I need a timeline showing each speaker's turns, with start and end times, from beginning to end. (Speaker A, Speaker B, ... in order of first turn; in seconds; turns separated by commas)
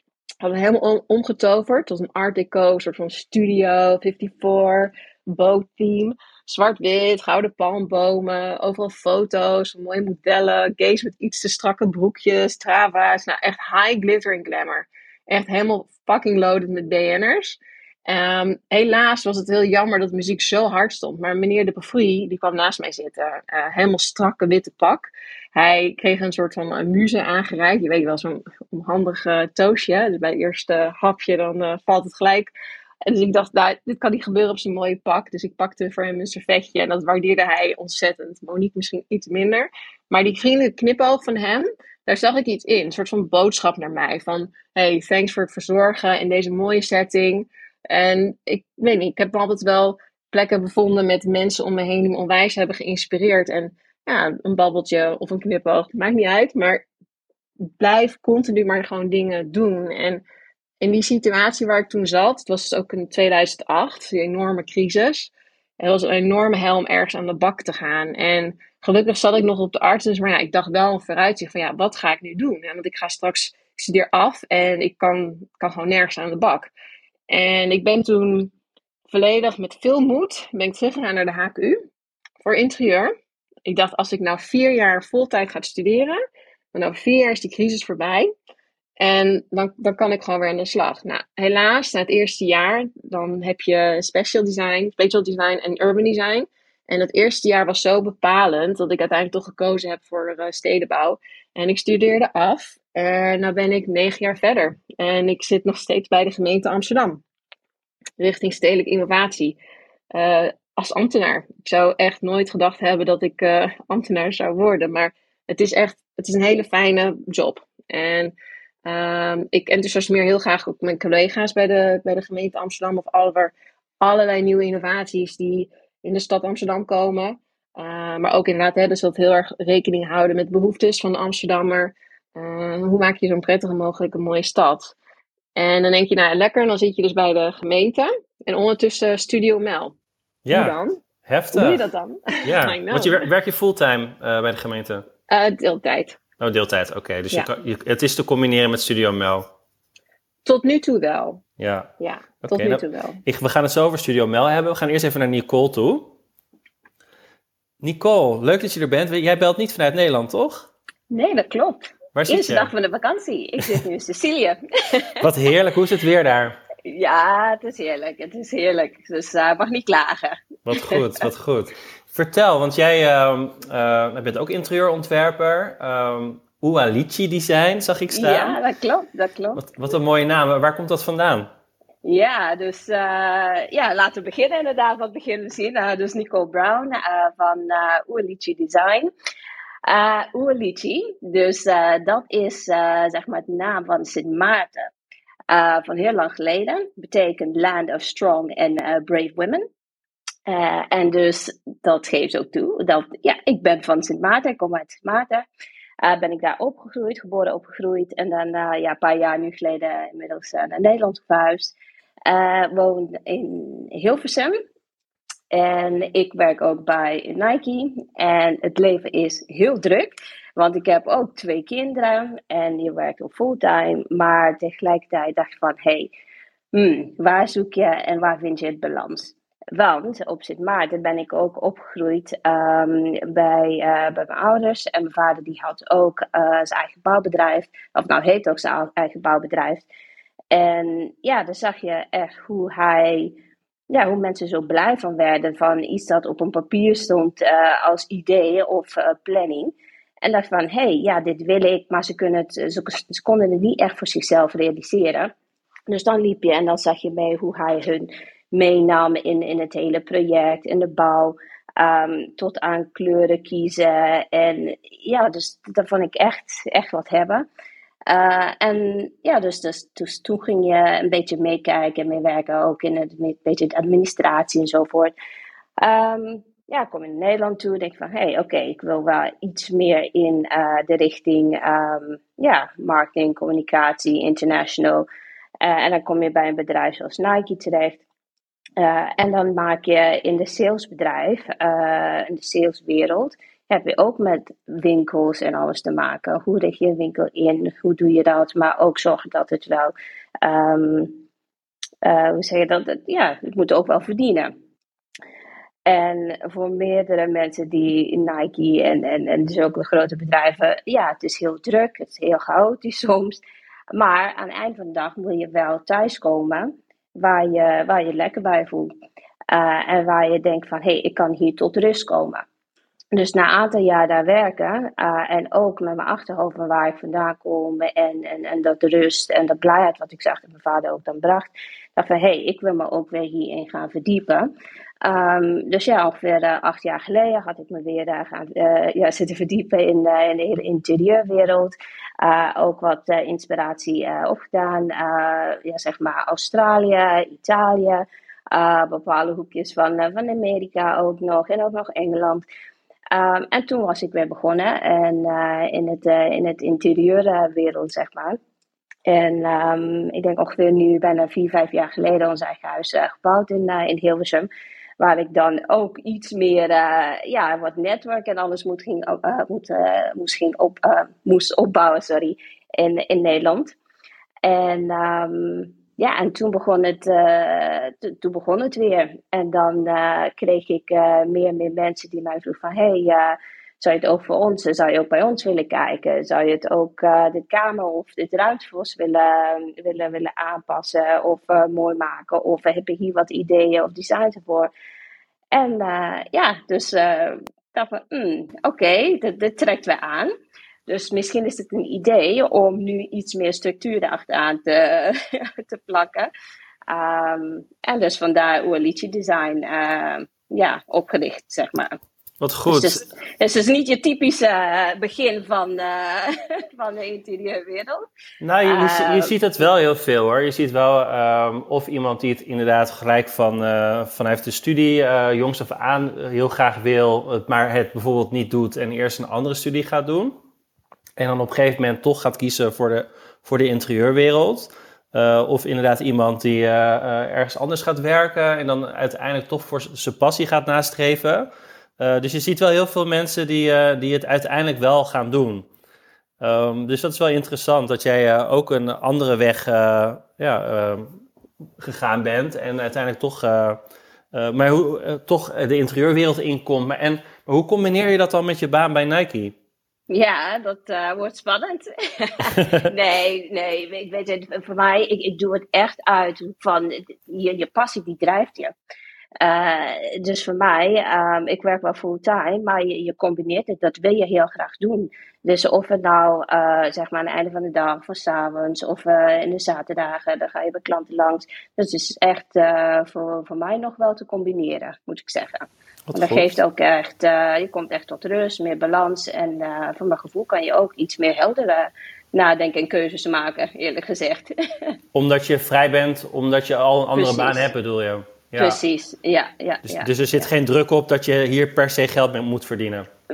Speaker A: 0.4-32.5, Speaker A: 33.0-56.8, Speaker A: 57.8-60.2, Speaker A: 60.8-76.7, Speaker A: 77.3-78.5, Speaker A: 79.1-81.9, Speaker A: 82.4-83.1, Speaker A: 83.7-86.2, Speaker A: 86.7-88.3, Speaker A: 89.0-107.2, Speaker A: 108.2-109.6, Speaker A: 110.1-118.3, Speaker A: 118.8-134.9, Speaker A: 135.6-139.9, Speaker B: 140.4-141.8, Speaker A: 140.5-141.0, Speaker A: 141.5-143.2, Speaker B: 142.4-145.0, Speaker A: 145.3-146.2, Speaker B: 146.4-149.5, Speaker A: 150.4-151.4, Speaker B: 151.6-151.9, Speaker A: 152.0-153.2, Speaker B: 152.4-156.1, Speaker B: 157.8-160.7, Speaker C: 161.1-165.2, Speaker B: 162.1-162.7, Speaker B: 165.2-166.6, Speaker C: 166.8-171.0, Speaker B: 170.7-178.6, Speaker C: 178.1-179.6, Speaker B: 179.5-181.5, Speaker C: 182.0-189.1, Speaker C: 189.8-194.9, Speaker C: 195.5-199.7, Speaker C: 200.4-205.4, Speaker C: 206.0-211.7, Speaker C: 212.2-214.6, Speaker C: 215.5-226.1, Speaker C: 226.7-239.9, Speaker C: 240.5-243.3, Speaker C: 243.9-255.3, Speaker C: 255.9-267.4, Speaker C: 268.1-275.1, Speaker C: 275.8-285.1, Speaker C: 285.6-288.0, Speaker C: 288.8-301.2, Speaker C: 302.0-304.5, Speaker C: 305.8-313.4, Speaker C: 313.9-318.9, Speaker C: 319.5-322.4, Speaker C: 323.1-334.5, Speaker C: 335.0-352.4, Speaker C: 353.1-358.4, Speaker C: 359.1-364.5, Speaker C: 365.0-373.7, Speaker C: 374.4-394.7, Speaker C: 395.5-400.3, Speaker C: 400.9-406.3, Speaker C: 406.9-412.0, Speaker B: 412.4-413.0, Speaker C: 412.7-418.1, Speaker B: 418.4-430.4, Speaker C: 418.6-419.3, Speaker B: 431.2-445.7, Speaker B: 446.4-451.2, Speaker B: 451.8-453.8, Speaker B: 454.3-459.5, Speaker C: 460.1-468.7, Speaker C: 469.4-495.0, Speaker B: 486.1-486.5, Speaker B: 495.1-498.8, Speaker C: 497.1-497.7, Speaker C: 498.6-500.4, Speaker B: 499.8-503.1